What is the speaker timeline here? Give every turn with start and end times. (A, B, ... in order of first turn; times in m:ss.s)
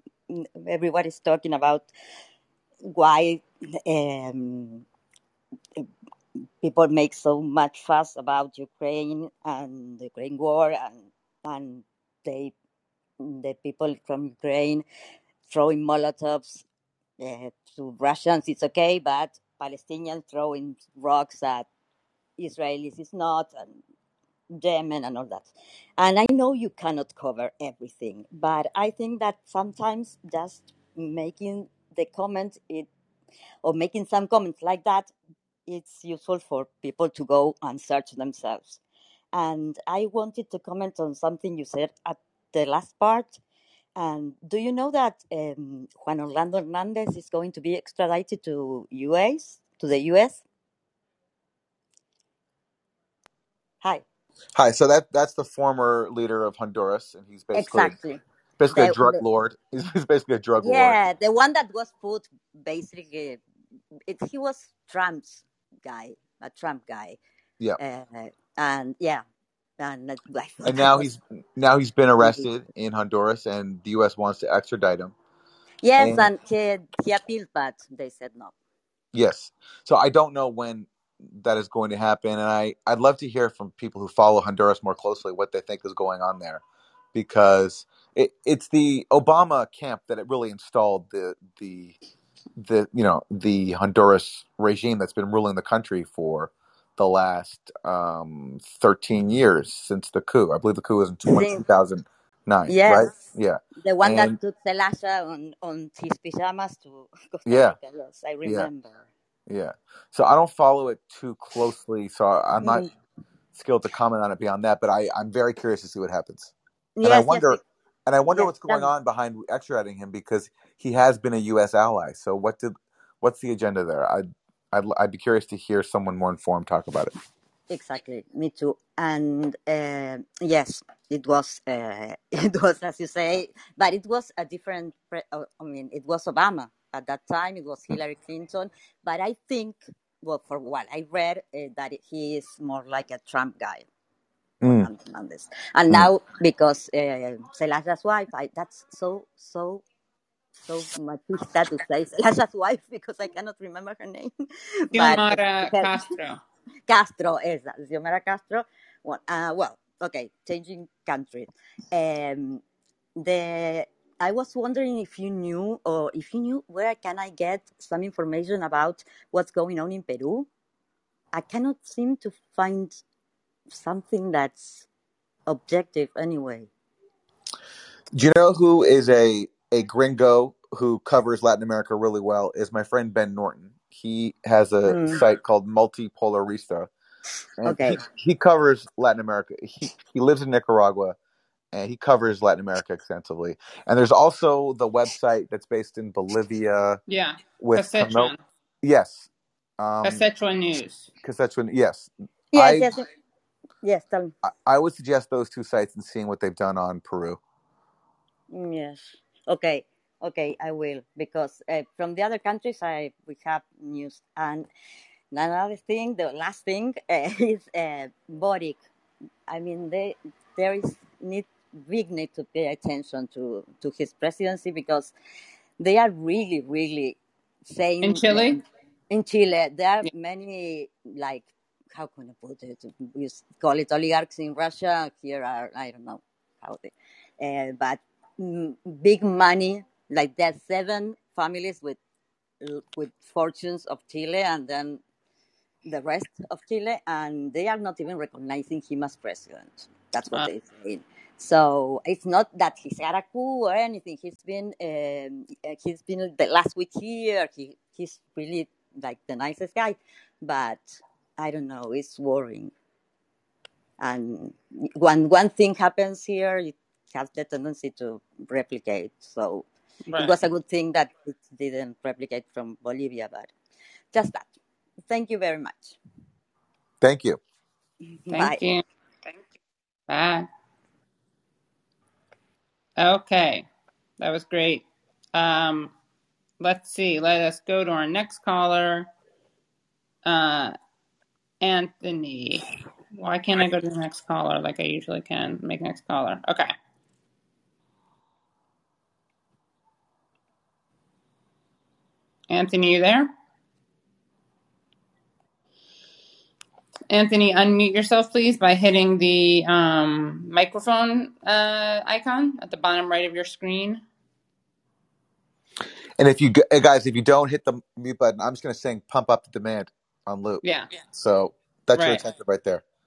0:00.3-0:01.9 A
0:02.9-0:04.8 A
0:06.6-0:12.5 A
0:13.2-0:14.8 A
0:15.5-0:16.6 A
0:17.2-0:21.7 A
0:22.4-0:23.8 A
0:24.5-0:32.9 A
0:33.6-0:35.1 A
0:35.7-0:38.8 A
0:39.3-0:43.4 A
0:44.0-0:50.4 A
0:54.5-0:58.0 B
0:57.5-0:58.2 A
0:58.6-1:01.0 B
0:58.7-0:59.2 A
1:00.6-1:03.4 A
1:04.0-1:07.2 A
1:07.8-1:09.2 A
1:09.8-1:11.1 A
1:10.6-1:15.1 B
1:12.2-1:12.5 A
1:15.8-1:18.5 A
1:16.0-1:16.3 B
1:19.1-1:26.6 B
1:27.1-1:32.0 B
1:32.6-1:44.4 B
1:41.3-1:41.6 A
1:42.7-1:49.0 A
1:47.4-1:47.8 B
1:49.5-1:52.8 B
1:52.6-1:52.9 A
1:53.5-2:07.1 B
1:57.0-1:57.6 A
1:58.3-1:58.9 A
2:07.7-2:23.9 A
2:24.6-2:24.9 B
2:24.6-2:29.8 A
2:30.6-2:36.0 A
2:34.9-2:36.4 C
2:36.9-2:42.6 A
2:43.2-2:50.5 A
2:51.3-2:53.0 A
2:53.7-2:54.8 A
2:55.5-2:56.7 A
2:58.1-3:06.9 B
3:04.9-3:05.2 A
3:07.6-3:11.2 B
3:07.6-3:08.0 A
3:11.7-3:17.0 B
3:17.1-3:18.4 C
3:17.6-3:19.3 B
3:19.8-3:20.2 B
3:20.0-3:21.1 C
3:21.2-3:22.9 B
3:22.5-3:23.1 A
3:23.8-3:24.3 A
3:24.4-3:27.4 B
3:28.5-3:34.7 A
3:35.3-3:38.8 A
3:39.5-3:45.1 A
3:45.8-4:02.0 A
3:48.0-3:48.6 C
4:02.6-4:05.0 A
4:05.8-4:22.7 A
4:24.0-4:33.5 A
4:30.1-4:30.4 C
4:34.1-4:34.5 A
4:35.1-4:36.0 A
4:37.0-4:37.4 B
4:38.2-4:38.6 A
4:38.3-4:39.4 C
4:40.1-4:40.5 C
4:43.0-4:43.7 C
4:44.2-4:45.9 C
4:46.6-4:49.1 C
4:50.2-4:50.7 C
4:51.6-4:56.7 C
5:02.5-5:03.3 C
5:07.1-5:14.0 C
5:16.2-5:22.8 B
5:20.6-5:20.9 C
5:21.9-5:22.2 C